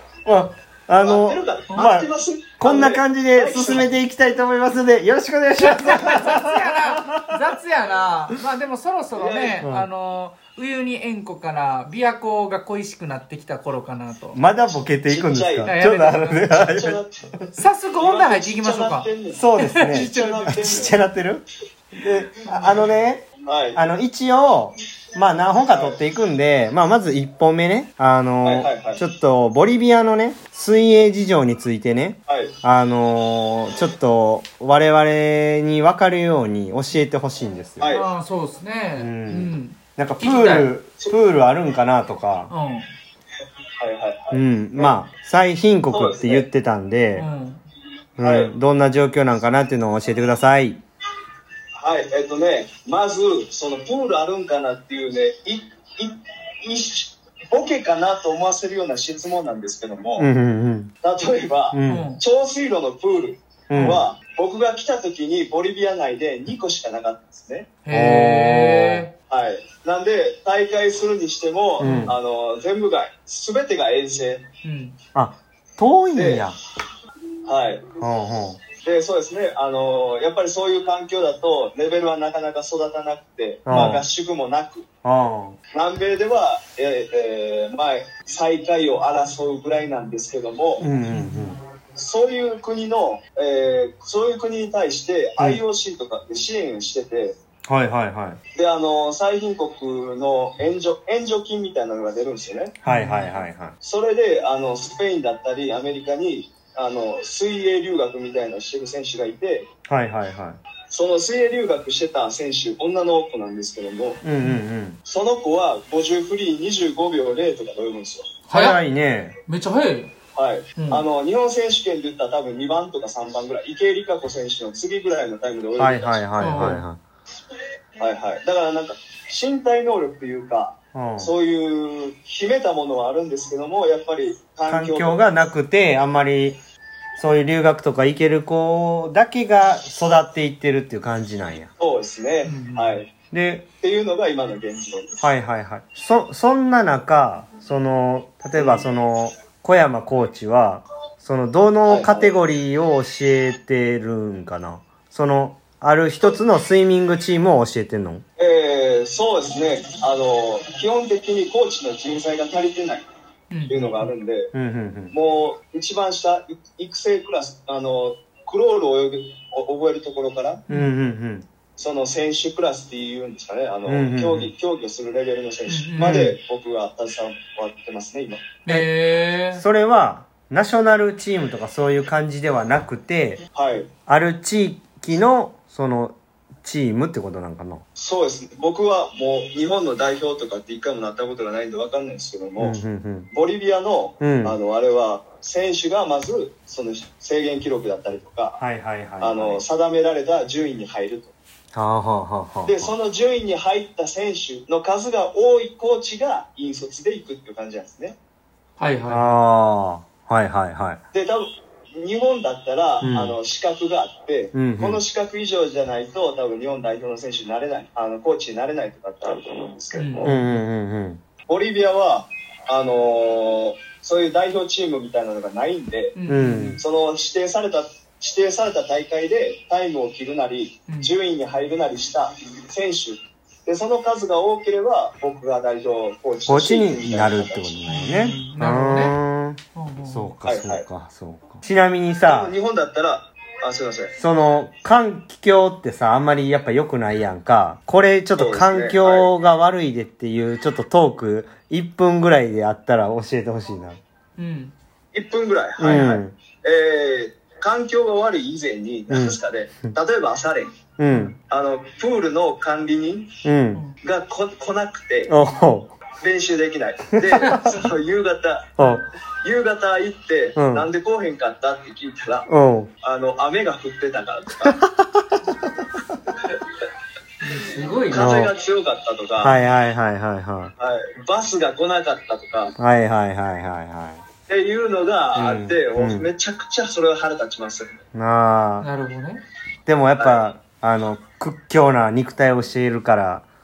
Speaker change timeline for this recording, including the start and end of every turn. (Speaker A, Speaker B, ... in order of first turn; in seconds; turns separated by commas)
Speaker A: 0.2-2.1, Speaker B: 1.0-3.9, Speaker A: 2.6-7.4, Speaker C: 5.6-14.4, Speaker B: 9.2-9.6, Speaker A: 9.6-9.9, Speaker A: 14.3-17.0, Speaker B: 15.1-15.8, Speaker C: 15.7-16.6, Speaker B: 16.5-17.3, Speaker C: 17.5-20.6, Speaker B: 18.0-19.4, Speaker A: 19.3-37.9, Speaker B: 19.9-21.1, Speaker B: 23.4-23.8, Speaker B: 25.7-26.0, Speaker B: 28.4-29.0, Speaker B: 32.3-32.5, Speaker B: 37.8-38.1, Speaker C: 37.9-40.7, Speaker A: 39.0-42.5, Speaker C: 42.5-42.9, Speaker B: 43.8-45.0, Speaker A: 44.3-47.3, Speaker B: 45.9-46.5, Speaker C: 47.1-47.6, Speaker A: 48.2-50.8, Speaker B: 48.2-48.5, Speaker B: 51.8-60.3, Speaker A: 60.2-60.9, Speaker B: 61.0-67.7, Speaker A: 61.7-62.1, Speaker C: 61.9-62.2, Speaker A: 63.7-64.0, Speaker C: 63.7-64.0, Speaker C: 67.8-69.1, Speaker A: 67.9-69.1, Speaker B: 69.3-74.5, Speaker A: 71.8-72.2, Speaker C: 71.8-72.2, Speaker C: 74.6-75.0, Speaker A: 75.2-76.5, Speaker B: 76.1-76.5, Speaker B: 77.5-77.9, Speaker A: 78.0-78.6, Speaker B: 78.8-84.9, Speaker A: 83.7-84.0, Speaker A: 85.0-85.6, Speaker B: 85.7-90.9, Speaker A: 90.8-91.6, Speaker C: 91.1-91.6, Speaker B: 92.0-97.3, Speaker A: 97.7-98.4, Speaker B: 98.5-102.8, Speaker A: 102.8-103.7, Speaker C: 102.8-103.3, Speaker B: 103.8-109.7, Speaker A: 109.9-110.6, Speaker B: 110.9-114.2, Speaker A: 114.2-115.0, Speaker B: 115.0-118.3, Speaker C: 118.5-118.8, Speaker A: 118.5-119.3, Speaker C: 119.5-120.1, Speaker B: 120.3-126.2, Speaker C: 120.8-121.0, Speaker A: 125.8-127.0, Speaker C: 126.4-126.8, Speaker B: 128.0-135.2, Speaker A: 130.9-131.3, Speaker A: 134.7-136.6, Speaker A: 137.2-141.7, Speaker B: 141.8-143.1, Speaker C: 142.4-143.0, Speaker A: 143.3-143.7, Speaker B: 143.8-145.2, Speaker A: 145.2-158.2, Speaker B: 148.6-148.9, Speaker B: 151.9-152.3, Speaker B: 158.4-163.1, Speaker C: 163.5-164.1, Speaker B: 163.7-164.5, Speaker A: 164.5-165.1, Speaker B: 165.1-170.6, Speaker A: 170.7-171.5, Speaker B: 171.8-178.5, Speaker A: 173.9-174.5, Speaker C: 175.7-176.2, Speaker A: 176.0-176.4, Speaker C: 178.7-179.6, Speaker A: 179.5-183.4, Speaker B: 183.5-183.9, Speaker A: 184.1-187.8, Speaker B: 188.0-192.8, Speaker A: 192.6-193.3, Speaker B: 193.3-198.6, Speaker A: 194.2-194.6, Speaker A: 198.6-199.6, Speaker B: 199.2-201.3, Speaker A: 201.7-202.9, Speaker B: 202.7-208.2, Speaker C: 208.8-209.4, Speaker A: 209.1-211.0, Speaker B: 211.1-220.3, Speaker A: 213.0-213.4, Speaker A: 214.5-215.0, Speaker C: 219.9-220.5, Speaker A: 220.2-221.2, Speaker B: 221.5-226.1, Speaker C: 226.2-226.8, Speaker A: 226.3-226.8, Speaker B: 226.8-237.7, Speaker A: 236.5-242.6, Speaker C: 237.9-239.2, Speaker C: 239.8-240.3, Speaker B: 240.4-240.8, Speaker B: 242.2-244.1, Speaker A: 244.1-254.0, Speaker B: 248.4-249.3, Speaker C: 254.4-254.7, Speaker B: 255.1-260.7, Speaker A: 255.8-256.3, Speaker A: 259.1-259.4, Speaker A: 261.0-261.4, Speaker C: 261.1-261.4, Speaker B: 261.5-263.3, Speaker A: 263.4-263.8, Speaker B: 264.0-265.4, Speaker A: 265.3-265.9, Speaker B: 266.2-268.8, Speaker C: 267.5-267.7, Speaker A: 268.8-269.0, Speaker B: 269.4-272.5, Speaker A: 270.6-270.9, Speaker A: 272.5-272.9, Speaker B: 273.0-274.8, Speaker A: 274.7-275.4, Speaker C: 277.4-278.3, Speaker B: 278.1-279.6, Speaker A: 278.1-278.5, Speaker A: 279.4-280.7, Speaker B: 280.8-282.7, Speaker A: 282.8-284.2, Speaker B: 284.5-287.9, Speaker A: 285.4-286.3, Speaker A: 288.1-288.9, Speaker C: 288.8-289.4, Speaker A: 289.9-293.4, Speaker B: 290.2-290.4